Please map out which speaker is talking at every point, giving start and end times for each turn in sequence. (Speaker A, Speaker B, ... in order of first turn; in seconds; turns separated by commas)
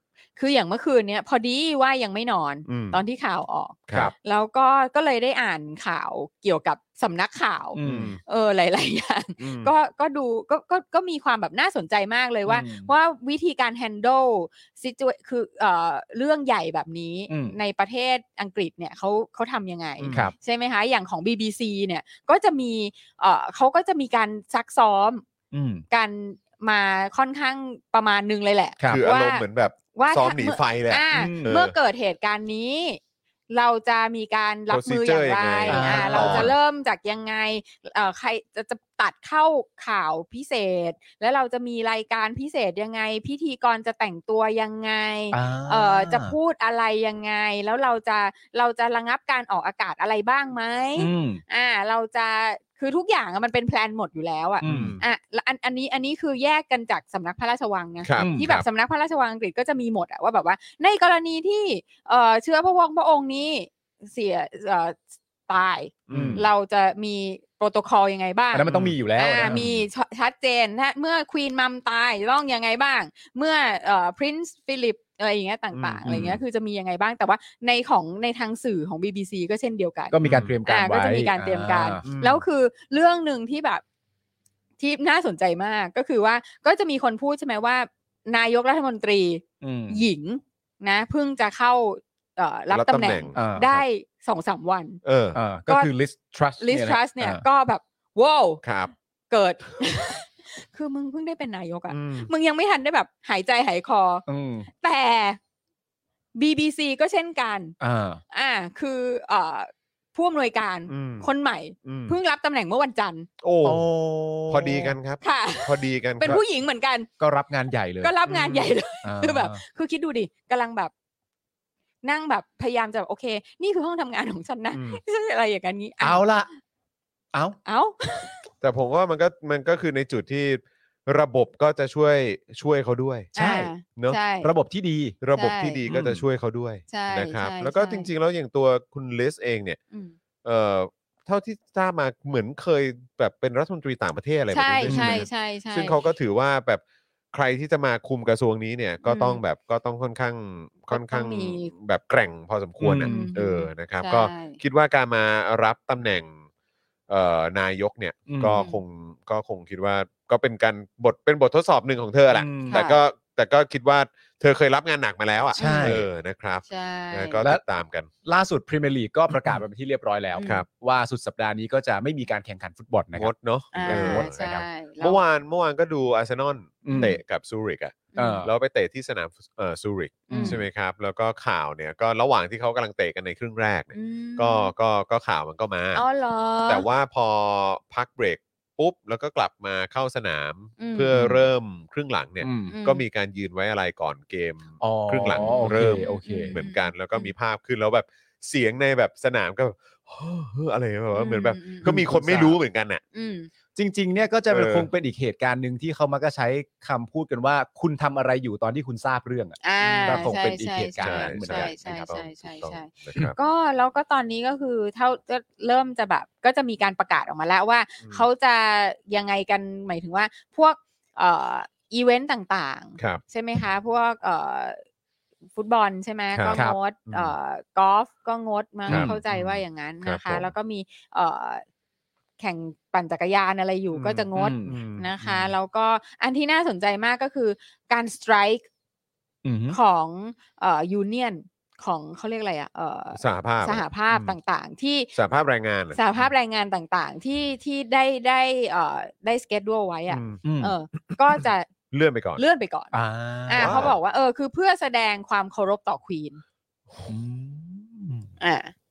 Speaker A: 0.4-25.2, Speaker B: 2.6-3.0, Speaker C: 7.7-8.1, Speaker B: 7.8-8.2, Speaker B: 9.4-9.7, Speaker C: 12.4-12.9, Speaker C: 17.3-17.6, Speaker B: 20.0-20.3, Speaker C: 25.5-25.8, Speaker A: 25.9-83.8, Speaker B: 28.9-31.7, Speaker C: 31.1-31.5, Speaker B: 34.7-36.5, Speaker C: 35.7-36.5, Speaker C: 45.3-46.4, Speaker C: 51.0-51.4, Speaker C: 54.6-55.0, Speaker B: 54.6-55.0, Speaker B: 58.0-58.6, Speaker C: 58.2-58.6, Speaker B: 66.1-66.5, Speaker C: 66.1-66.5, Speaker C: 68.5-69.7, Speaker B: 68.6-69.8, Speaker B: 75.7-76.4, Speaker C: 76.0-76.4, Speaker C: 80.1-82.0, Speaker B: 80.2-80.5, Speaker B: 82.0-82.4, Speaker A: 84.8-95.0, Speaker C: 89.6-90.1, Speaker B: 92.7-93.8, Speaker C: 93.3-93.7, Speaker B: 95.0-95.4, Speaker C: 95.3-97.4, Speaker A: 96.6-98.6, Speaker B: 98.6-98.9, Speaker A: 99.3-105.4, Speaker B: 101.9-102.3, Speaker C: 104.3-104.7, Speaker A: 106.3-107.7, Speaker C: 107.8-108.2, Speaker A: 108.3-113.3, Speaker B: 110.9-111.3, Speaker B: 111.8-112.2, Speaker B: 113.4-113.9, Speaker C: 113.6-114.9, Speaker B: 114.5-116.4, Speaker A: 115.2-117.1, Speaker C: 117.2-118.1, Speaker A: 118.0-120.9, Speaker B: 118.2-118.8, Speaker C: 119.0-119.6, Speaker A: 122.0-126.3, Speaker B: 124.7-125.0, Speaker C: 126.0-126.5, Speaker A: 127.7-128.4, Speaker B: 128.6-134.2, Speaker C: 133.3-133.7, Speaker A: 133.3-134.5, Speaker C: 134.4-135.2, Speaker B: 135.2-139.8, Speaker A: 135.3-135.8, Speaker C: 135.9-136.2, Speaker A: 136.9-138.1, Speaker B: 140.4-146.8, Speaker A: 144.5-146.0, Speaker C: 144.9-145.2, Speaker B: 147.3-156.4, Speaker A: 149.0-149.4, Speaker A: 150.9-151.7, Speaker C: 152.8-153.3, Speaker A: 153.0-154.6, Speaker B: 157.1-168.1, Speaker C: 158.3-158.6, Speaker A: 158.5-158.8, Speaker C: 162.3-162.8, Speaker A: 162.7-163.0, Speaker A: 165.6-166.0, Speaker C: 165.6-166.1, Speaker A: 166.7-167.4, Speaker C: 168.2-174.6, Speaker A: 170.3-170.6, Speaker B: 173.2-174.3, Speaker A: 173.7-175.2, Speaker B: 175.0-186.0, Speaker C: 176.8-177.2, Speaker A: 176.9-177.2, Speaker A: 178.1-178.5, Speaker C: 178.2-178.5, Speaker A: 180.3-180.6, Speaker C: 180.3-180.6, Speaker A: 183.9-184.7, Speaker A: 185.9-186.9, Speaker B: 186.7-203.0, Speaker A: 190.8-191.3, Speaker C: 192.4-192.7, Speaker A: 192.7-193.0, Speaker C: 194.8-196.6, Speaker A: 195.3-197.3, Speaker A: 201.1-201.9, Speaker C: 201.8-202.6, Speaker A: 203.1-203.5, Speaker C: 203.8-211.7, Speaker B: 204.5-204.9, Speaker A: 209.6-224.8, Speaker B: 209.8-210.3, Speaker B: 211.0-213.3, Speaker A: 225.6-231.6, Speaker B: 226.3-227.3, Speaker C: 226.5-226.8, Speaker C: 228.9-229.2, Speaker B: 228.9-230.5, Speaker A: 232.4-238.7, Speaker B: 233.9-235.5, Speaker C: 234.3-234.8, Speaker C: 239.4-239.8, Speaker A: 239.7-245.1, Speaker B: 243.2-244.3, Speaker B: 245.1-246.0, Speaker A: 245.9-251.7, Speaker B: 250.1-250.4, Speaker C: 250.4-250.7, Speaker B: 251.9-252.4, Speaker A: 252.4-252.9, Speaker C: 252.9-253.9, Speaker A: 253.5-256.4, Speaker B: 253.6-253.9, Speaker C: 257.1-258.3, Speaker A: 258.4-258.7